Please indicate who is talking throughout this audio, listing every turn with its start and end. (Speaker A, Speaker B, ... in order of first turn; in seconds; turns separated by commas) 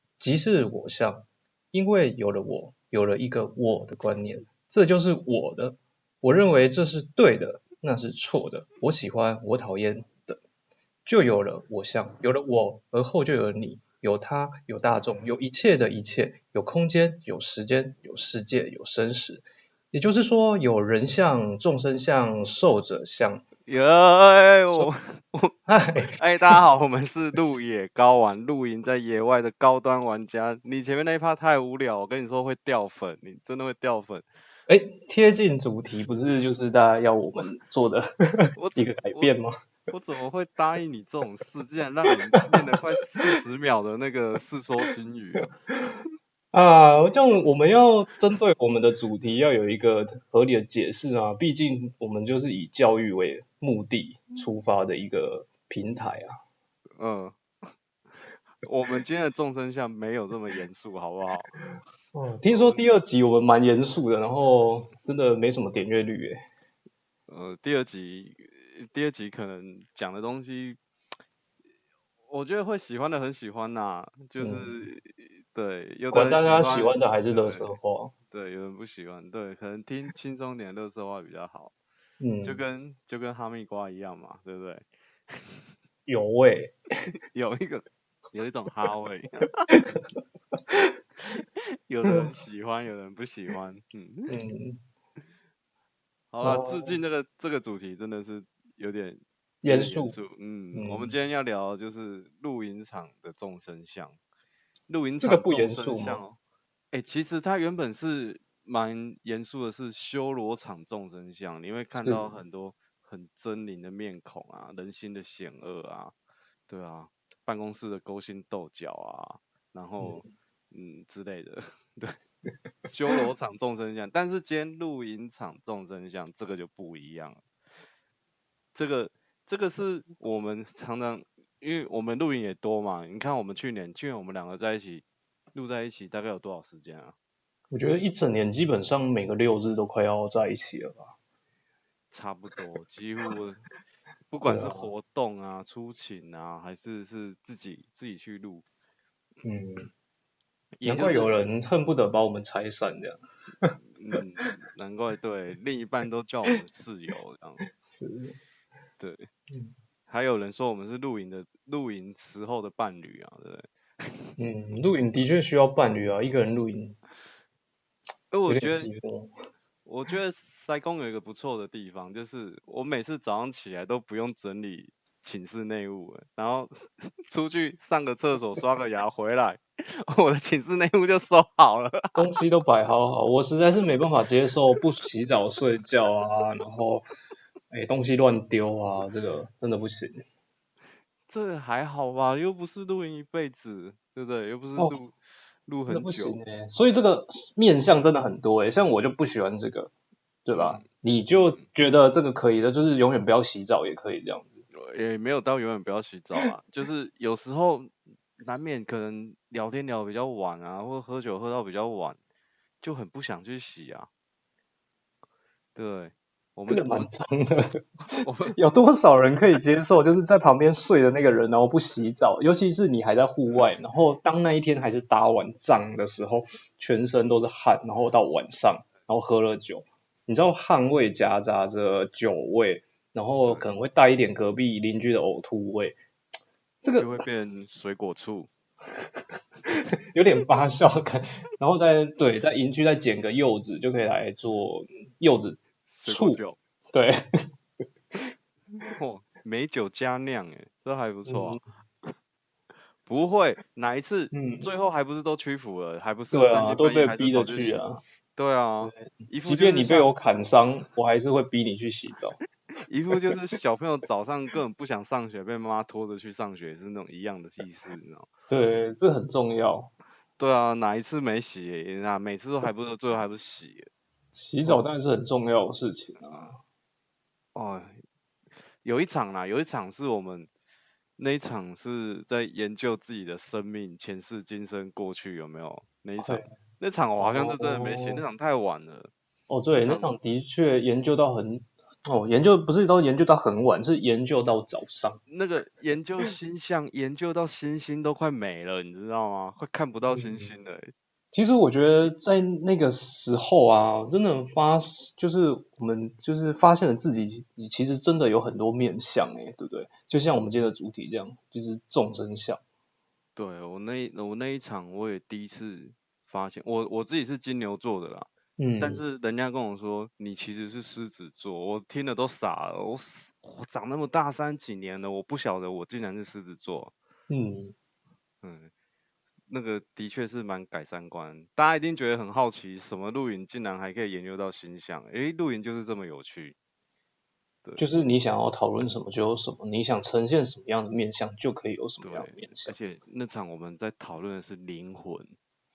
Speaker A: 0.2-10.4, Speaker A: 11.1-23.4, Speaker B: 23.7-25.6, Speaker A: 25.7-26.2, Speaker B: 26.1-34.3, Speaker A: 34.7-39.5, Speaker B: 38.6-39.3, Speaker B: 39.9-45.5, Speaker A: 46.5-56.4, Speaker B: 57.0-57.4, Speaker B: 58.6-61.6, Speaker A: 62.1-66.4, Speaker B: 62.5-62.8, Speaker B: 67.3-70.8, Speaker B: 72.3-77.7, Speaker A: 74.4-74.7, Speaker A: 76.1-78.1, Speaker B: 78.3-81.7, Speaker A: 82.2-82.6, Speaker B: 82.4-85.6, Speaker A: 86.1-86.7, Speaker B: 87.3-89.7, Speaker A: 89.7-90.0, Speaker A: 90.7-91.0, Speaker B: 91.2-94.3, Speaker A: 94.3-94.8, Speaker B: 96.3-104.2, Speaker A: 96.4-97.0, Speaker A: 99.6-100.2, Speaker A: 100.8-101.1, Speaker B: 104.9-106.4, Speaker A: 105.2-106.2, Speaker B: 106.9-116.2, Speaker A: 112.0-112.3, Speaker B: 116.7-122.2, Speaker A: 120.0-120.3, Speaker B: 122.8-127.4, Speaker B: 128.8-137.2, Speaker A: 137.7-141.2, Speaker B: 142.1-143.7, Speaker B: 144.3-148.7, Speaker A: 144.4-144.9, Speaker A: 149.4-149.9, Speaker B: 150.8-151.4, Speaker A: 150.8-153.8, Speaker B: 154.0-157.7, Speaker A: 157.8-158.4, Speaker B: 159.0-159.3, Speaker B: 160.1-164.3, Speaker A: 164.4-167.0, Speaker B: 168.3-168.9, Speaker A: 168.5-169.3, Speaker B: 169.8-176.7, Speaker B: 177.3-182.3, Speaker A: 182.2-187.1, Speaker A: 187.7-190.2, Speaker B: 191.3-196.4, Speaker A: 195.8-199.9, Speaker A: 200.4-204.6, Speaker B: 200.5-200.8, Speaker B: 204.7-212.2, Speaker B: 212.8-214.1, Speaker B: 215.8-217.1, Speaker A: 216.7-236.0, Speaker B: 218.1-218.6, Speaker B: 233.4-233.7, Speaker A: 236.8-237.1, Speaker B: 237.0-238.5, Speaker A: 239.7-246.4, Speaker B: 245.9-246.6, Speaker A: 246.9-247.2, Speaker B: 248.9-251.6, Speaker A: 251.3-251.6, Speaker B: 253.1-257.8, Speaker A: 254.3-254.7, Speaker A: 256.3-258.0, Speaker B: 258.4-260.1, Speaker A: 258.8-262.4, Speaker B: 262.8-268.3, Speaker A: 268.5-269.9, Speaker B: 270.4-273.9, Speaker A: 274.4-276.6, Speaker B: 277.6-278.0, Speaker B: 278.8-280.5, Speaker B: 281.2-289.1, Speaker A: 286.2-286.5, Speaker A: 287.2-288.2, Speaker A: 289.5-295.2, Speaker B: 289.7-290.1, Speaker B: 295.3-300.9, Speaker A: 300.1-300.5, Speaker A: 301.3-312.6, Speaker B: 313.4-326.9, Speaker A: 318.6-319.0, Speaker A: 327.3-327.8, Speaker B: 328.4-328.7, Speaker B: 329.5-336.6, Speaker A: 337.8-342.8, Speaker B: 342.0-345.3